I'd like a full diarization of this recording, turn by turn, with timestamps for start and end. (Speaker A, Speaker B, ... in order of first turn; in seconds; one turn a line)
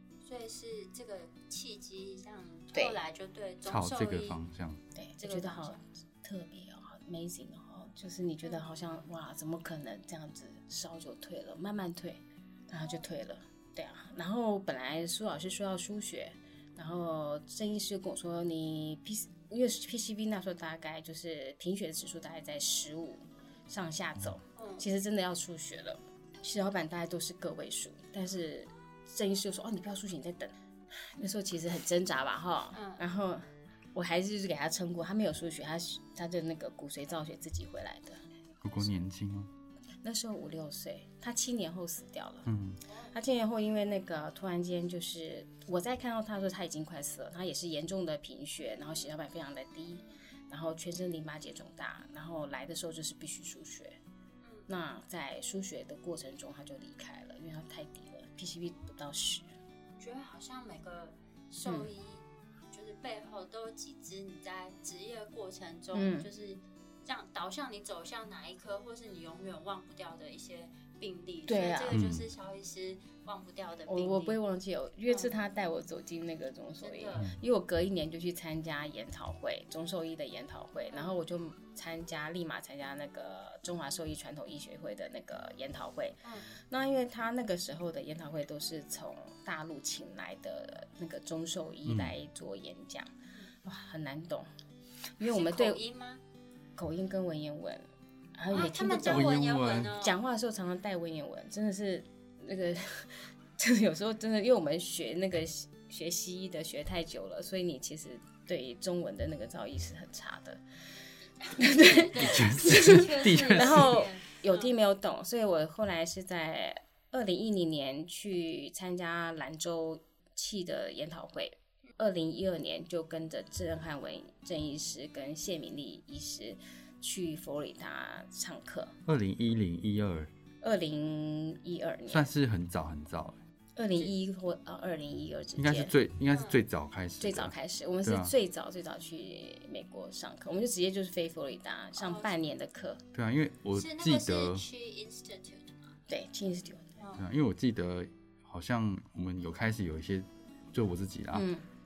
Speaker A: 0.2-4.4
Speaker B: 3.6-4.8
Speaker C: 4.9-38.2
Speaker A: 5.2-5.8
Speaker A: 24.6-24.9
Speaker A: 32.7-33.0
Speaker B: 38.6-39.5
Speaker C: 40.0-42.5
Speaker B: 42.5-42.8
Speaker A: 42.9-43.1
Speaker C: 43.1-54.0
Speaker A: 54.4-54.7
Speaker C: 54.7-59.5
Speaker A: 60.0-74.4
Speaker C: 61.6-61.9
Speaker C: 65.9-66.3
Speaker C: 71.5-72.0
Speaker B: 71.9-72.3
Speaker C: 73.9-93.1
Speaker A: 75.1-75.3
Speaker A: 76.8-77.3
Speaker A: 80.9-81.2
Speaker B: 91.8-92.1
Speaker C: 93.6-94.5
Speaker C: 95.2-95.8
Speaker A: 95.2-96.2
Speaker C: 96.8-99.4
Speaker A: 98.5-100.2
Speaker B: 99.0-99.9
Speaker C: 99.9-110.6
Speaker A: 111.4-114.7
Speaker C: 111.5-128.9
Speaker B: 112.1-114.0
Speaker B: 129.1-130.3
Speaker C: 130.6-132.3
Speaker B: 132.1-133.4
Speaker C: 133.8-135.9
Speaker B: 135.6-138.3
Speaker A: 136.3-136.6
Speaker C: 137.2-143.0
Speaker A: 142.0-142.3
Speaker B: 143.1-144.6
Speaker A: 143.7-145.9
Speaker C: 146.1-146.9
Speaker A: 147.0-147.2
Speaker B: 147.2-151.5
Speaker C: 151.3-151.7